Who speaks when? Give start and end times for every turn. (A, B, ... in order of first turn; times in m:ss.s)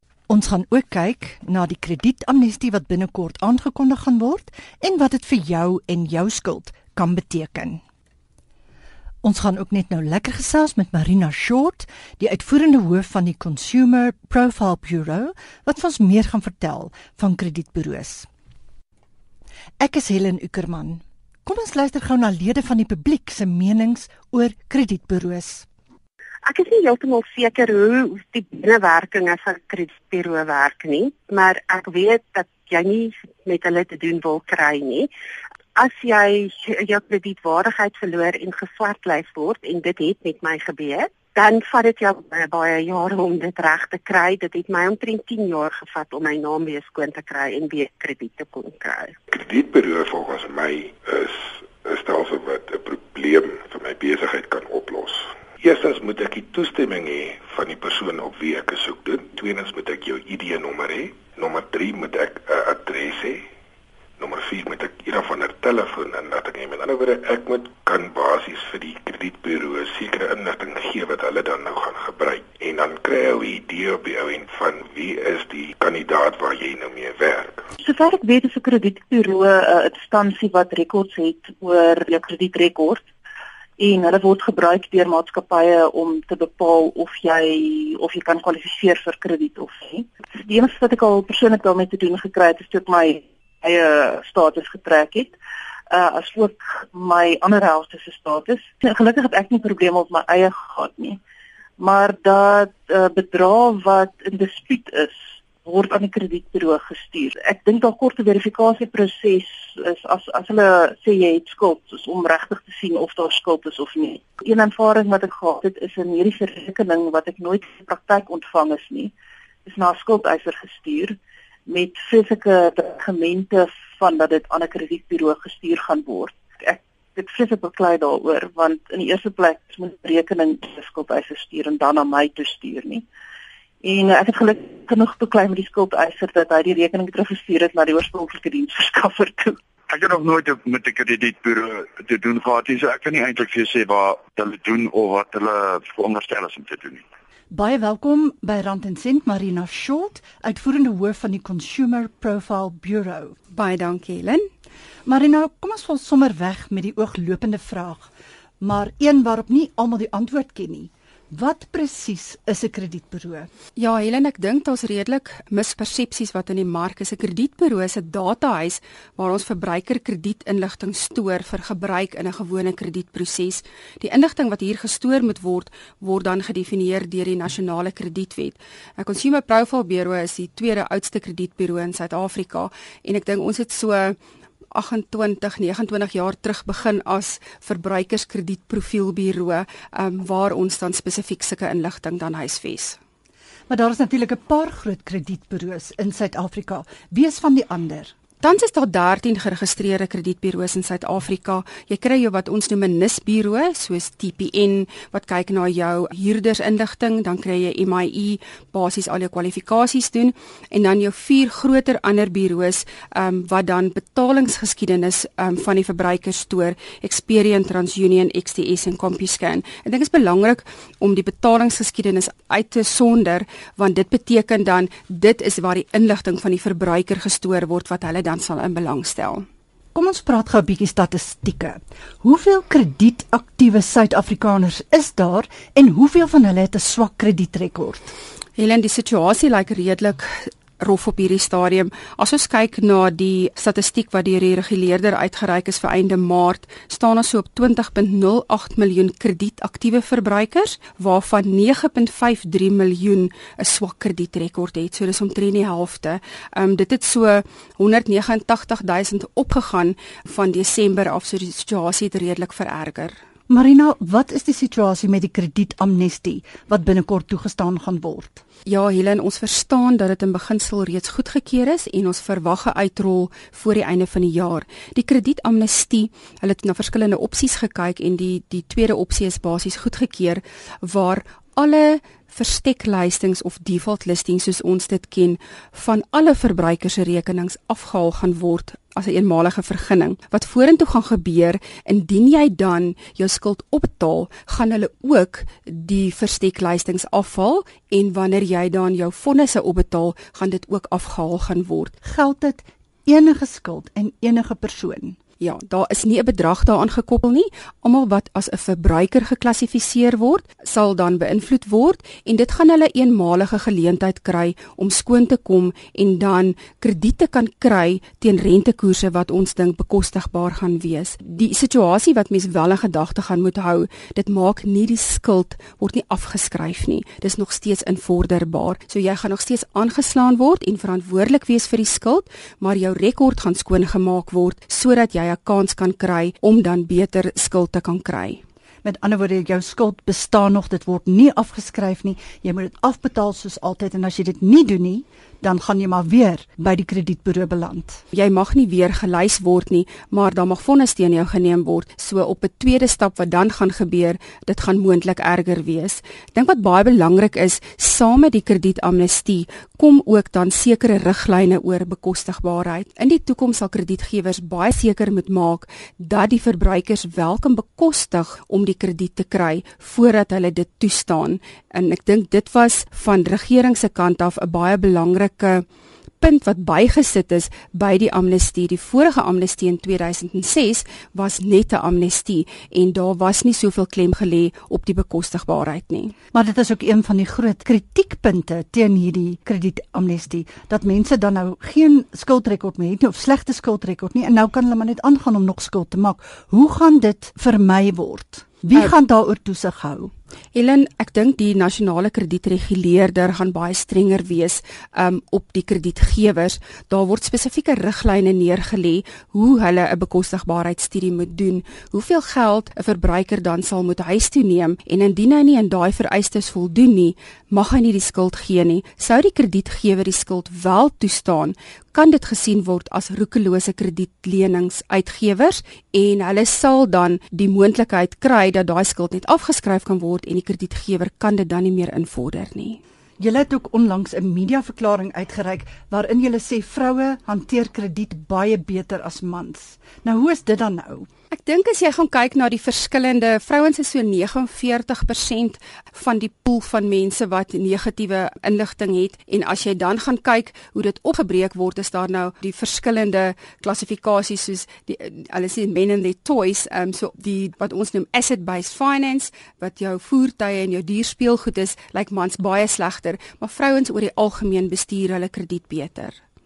0:00.3-0:07.8 A
0:09.2-0:18.3 A
0:19.8-0:25.7 A
0:26.4-0:35.1 B
0:35.8-0:49.1 B
0:49.3-1:03.4 C
1:04.2-1:17.6 C
1:17.8-1:23.0 D
1:23.8-1:35.3 D
1:35.9-1:41.2 D
1:41.8-1:59.1 D
1:59.6-2:01.2 D
2:01.7-2:13.0 D
2:13.8-2:19.6 D
2:19.9-2:27.0 E
2:27.5-2:33.4 A
2:33.5-2:34.5 F
2:35.0-2:38.1 A
2:38.6-2:43.5 A
2:43.8-3:04.2 F
3:04.7-3:13.0 F
3:13.7-3:18.1 A
3:18.4-3:49.4 F
3:49.9-3:58.1 A
3:58.6-4:23.1 F
4:23.5-4:28.4 A
4:28.6-5:01.9 F
5:02.0-5:05.2 A
5:05.4-5:38.4 F
5:38.8-5:48.0 A
5:48.1-6:15.6 F
6:16.2-6:26.2 F
6:26.3-6:40.1 A
6:40.5-7:12.8 F
7:13.2-7:21.1 A
7:21.3-7:46.2 F